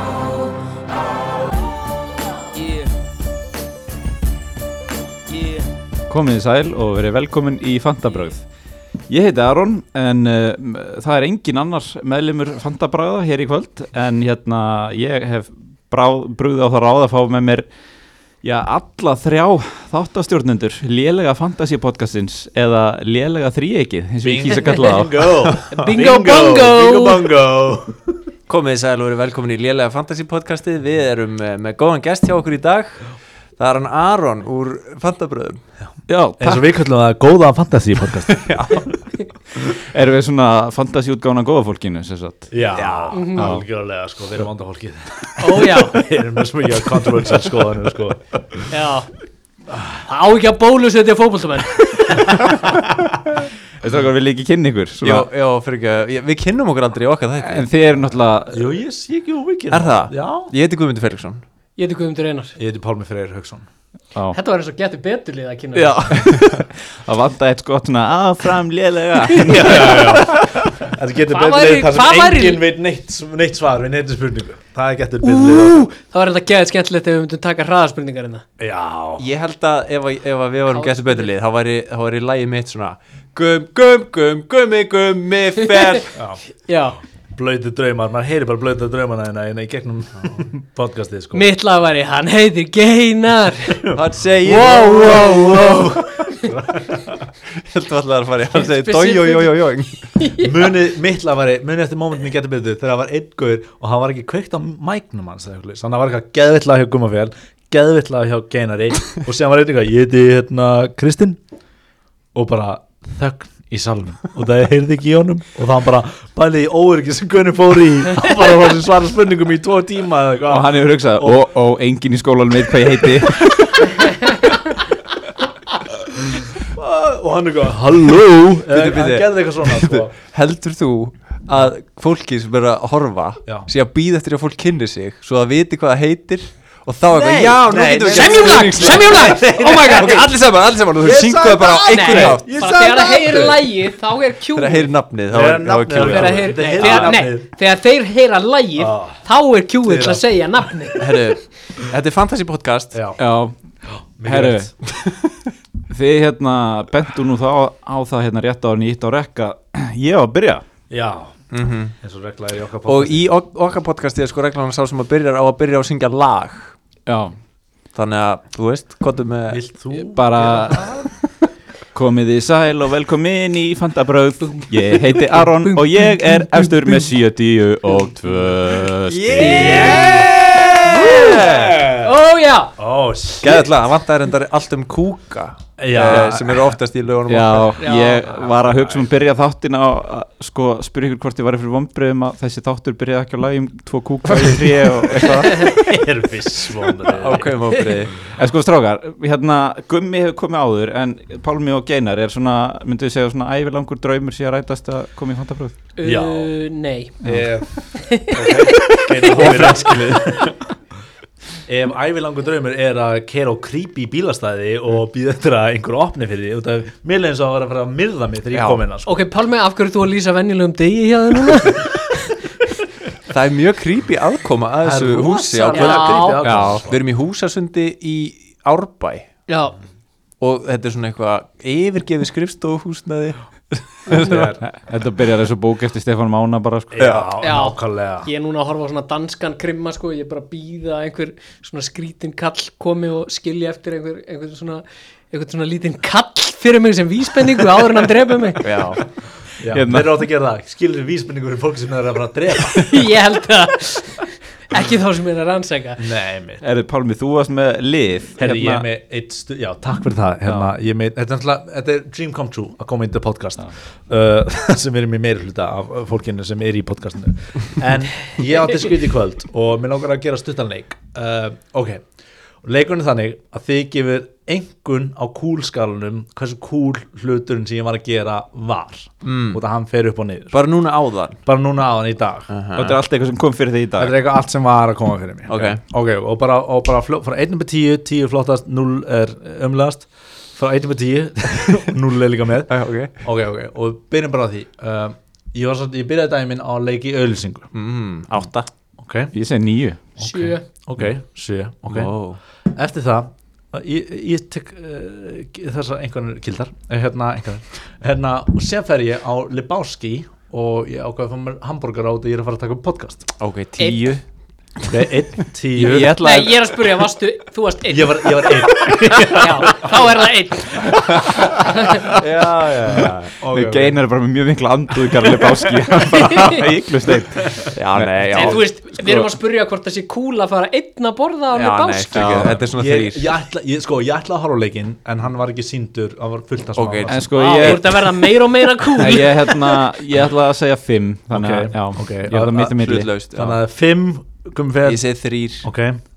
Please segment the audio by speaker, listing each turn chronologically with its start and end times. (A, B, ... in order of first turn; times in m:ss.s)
0:06.1-0:08.4 A
0:09.1-0:17.7 A
0:18.4-0:25.5 A
0:24.2-0:28.2 B
0:25.7-0:27.3 C
0:28.5-0:35.6 D
0:35.8-0:39.0 B
0:36.1-0:36.6 A
0:38.3-0:38.8 D
0:39.6-0:42.6 A
0:42.5-0:48.7 B
0:42.7-0:43.2 D
0:43.1-0:43.5 C
0:43.4-0:43.7 A
0:45.4-0:46.0 C
0:48.7-0:49.1 C
0:49.7-0:50.0 B
0:50.1-0:52.4 C
0:53.8-0:55.3 A
0:55.0-0:57.7 D
0:57.4-0:58.8 A
0:58.5-1:00.5 B
0:59.7-1:01.4 D
1:01.8-1:02.6 C
1:02.6-1:03.7 B
1:04.3-1:06.2 C
1:05.8-1:06.6 D
1:06.1-1:10.7 A
1:09.4-1:15.9 B
1:11.3-1:12.6 C
1:15.2-1:18.4 C
1:18.6-1:19.3 B
1:19.2-1:26.2 D
1:20.7-1:21.3 C
1:25.6-1:26.0 C
1:26.2-1:26.4 B
1:26.6-1:27.0 C
1:27.4-1:31.5 B
1:31.3-1:33.8 C
1:33.8-1:37.3 B
1:33.9-1:36.0 D
1:34.4-1:36.5 C
1:37.6-1:40.1 D
1:38.6-1:39.6 C
1:40.2-1:40.6 C
1:40.4-1:51.4 B
1:52.3-2:01.4 B
2:00.5-2:03.8 A
2:06.2-2:10.1 B
2:08.7-2:22.6 D
2:17.0-2:20.3 B
2:18.1-2:20.3 C
2:21.0-2:23.6 B
2:21.8-2:24.9 C
2:24.5-2:27.2 D
2:25.3-2:27.5 B
2:26.0-2:31.1 C
2:28.8-2:29.2 B
2:29.8-2:30.2 B
2:31.0-2:33.0 D
2:32.9-2:33.2 B
2:33.2-2:33.6 A
2:34.2-2:34.7 B
2:34.3-2:34.7 A
2:35.9-2:40.7 A
2:40.9-2:41.4 B
2:41.5-2:42.0 D
2:42.0-2:43.2 B
2:42.8-2:46.7 D
2:47.1-2:47.4 A
2:47.9-2:50.0 D
2:49.5-2:51.1 B
2:50.1-2:51.0 A
2:51.9-3:00.1 A
2:54.4-2:57.1 C
2:59.0-3:01.8 D
2:59.4-3:02.8 C
2:59.5-3:02.2 B
3:02.8-3:03.7 B
3:03.4-3:07.8 D
3:05.8-3:06.8 B
3:07.3-3:15.8 A
3:07.8-3:08.3 C
3:14.2-3:15.6 D
3:15.6-3:17.7 B
3:17.0-3:18.2 D
3:18.4-3:25.8 A
3:26.0-3:27.2 C
3:26.0-3:26.5 B
3:27.2-3:30.6 B
3:28.0-3:30.0 C
3:29.4-3:29.8 D
3:31.7-3:39.2 B
3:38.5-3:38.8 D
3:39.0-3:42.4 C
3:43.3-3:49.3 D
3:44.8-3:47.0 B
3:45.6-3:46.4 C
3:46.4-3:46.9 A
3:49.5-3:49.8 C
3:50.4-3:54.6 D
3:54.1-3:54.6 B
3:54.1-3:57.2 A
3:56.9-3:58.3 B
3:57.0-3:57.3 D
3:57.4-4:08.7 C
4:08.6-4:09.0 D
4:09.6-4:13.0 B
4:09.6-4:10.2 A
4:12.7-4:16.0 C
4:16.0-4:16.6 B
4:16.6-4:18.9 A
4:18.4-4:32.0 B
4:20.4-4:20.7 A
4:32.6-4:40.6 B
4:39.2-4:39.6 D
4:40.5-4:41.4 D
4:41.4-4:42.5 B
4:42.5-4:43.0 D
4:42.8-4:44.2 A
4:44.0-4:57.7 B
4:45.5-4:45.8 D
4:52.7-4:53.1 D
4:57.7-4:58.7 D
4:59.0-4:59.3 B
4:59.3-5:00.0 A
5:00.2-5:00.6 C
5:00.2-5:02.1 B
5:01.9-5:02.4 D
5:02.7-5:13.3 B
5:13.4-5:14.2 D
5:13.8-5:14.0 C
5:14.9-5:16.2 B
5:15.7-5:16.9 D
5:16.2-5:18.6 C
5:17.9-5:20.1 B
5:19.2-5:22.0 C
5:21.4-5:24.0 B
5:23.0-5:29.3 A
5:25.2-5:26.5 B
5:26.2-5:26.6 C
5:27.7-5:28.6 D
5:28.3-5:32.4 C
5:31.5-5:33.4 D
5:32.1-5:32.6 A
5:32.4-5:37.8 B
5:36.8-5:37.1 D
5:37.1-5:38.0 A
5:37.3-5:39.8 C
5:39.0-5:43.1 A
5:41.3-5:45.0 B
5:42.7-5:43.6 D
5:44.8-5:45.7 D
5:45.6-5:46.0 B